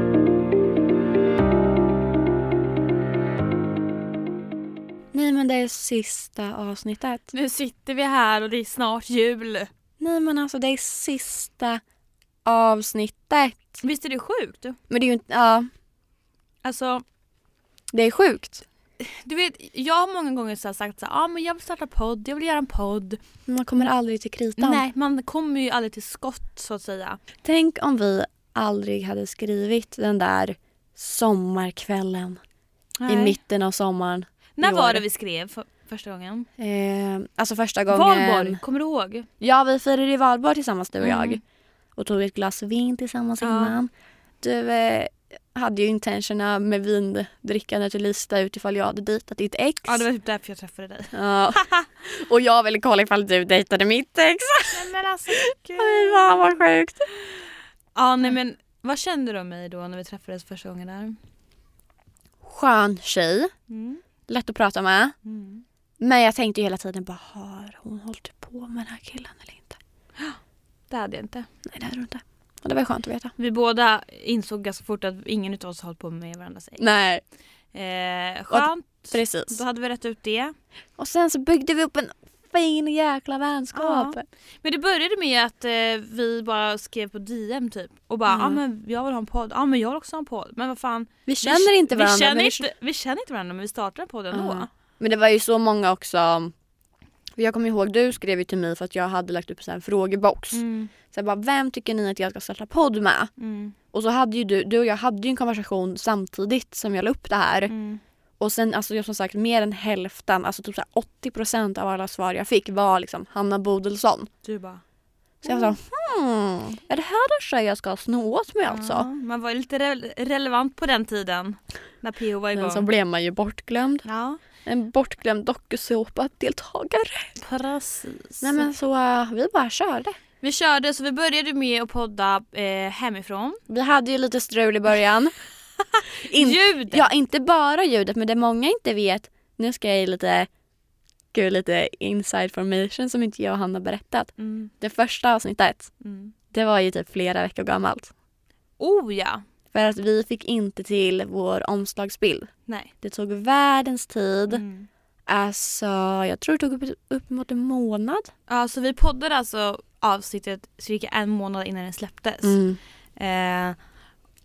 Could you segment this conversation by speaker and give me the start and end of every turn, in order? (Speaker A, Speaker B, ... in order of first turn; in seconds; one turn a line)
Speaker A: 5.1-7.3
Speaker B: 7.3-9.7
Speaker A: 10.0-11.8
Speaker A: 12.5-13.8
Speaker B: 13.8-14.8
Speaker A: 14.9-15.7
Speaker B: 16.6-17.0
Speaker A: 17.9-18.6
Speaker B: 19.0-23.2
Speaker A: 23.5-24.8
Speaker B: 24.6-27.2
Speaker A: 27.4-32.4
Speaker B: 33.0-33.4
Speaker A: 33.1-35.0
Speaker B: 34.6-36.5
Speaker A: 36.6-38.6
Speaker B: 37.9-39.3
Speaker A: 39.4-41.4
Speaker B: 41.0-41.4
Speaker A: 42.0-43.9
Speaker B: 43.4-43.8
Speaker A: 44.4-50.1
Speaker B: 49.8-51.9
Speaker A: 51.1-54.9
Speaker B: 54.7-56.7
Speaker A: 55.7-57.1
Speaker B: 58.0-61.2
Speaker A: 62.4-63.5
Speaker B: 63.7-64.0
Speaker A: 64.3-65.1
Speaker B: 65.2-65.6
Speaker A: 66.0-69.8
Speaker B: 70.9-71.5
Speaker A: 71.7-73.3
Speaker B: 73.4-76.9
Speaker A: 76.8-77.2
Speaker B: 77.7-80.5
Speaker A: 78.5-79.6
Speaker A: 81.0-84.2
Speaker B: 83.7-94.7
Speaker A: 88.3-88.6
Speaker A: 91.3-92.7
Speaker A: 94.3-96.5
Speaker A: 97.4-103.3
Speaker B: 100.5-100.9
Speaker B: 103.4-103.8
Speaker A: 103.9-107.7
Speaker B: 107.7-108.0
Speaker A: 108.4-114.3
Speaker B: 114.4-114.8
Speaker A: 115.4-119.1
Speaker B: 115.5-115.8
Speaker B: 118.7-122.9
Speaker A: 122.5-124.0
Speaker B: 124.0-124.4
Speaker A: 124.7-127.3
Speaker B: 127.4-128.7
Speaker A: 128.4-130.2
Speaker B: 130.4-133.6
Speaker A: 133.7-135.4
Speaker B: 135.9-137.1
Speaker A: 136.2-140.5
Speaker A: 141.3-145.9
Speaker B: 144.4-144.7
Speaker B: 146.0-146.3
Speaker A: 146.5-148.1
Speaker B: 148.8-149.4
Speaker A: 149.7-152.5
Speaker A: 153.0-154.6
Speaker B: 154.5-154.9
Speaker A: 155.3-158.3
Speaker B: 158.5-162.6
Speaker A: 162.4-162.8
Speaker B: 163.2-163.8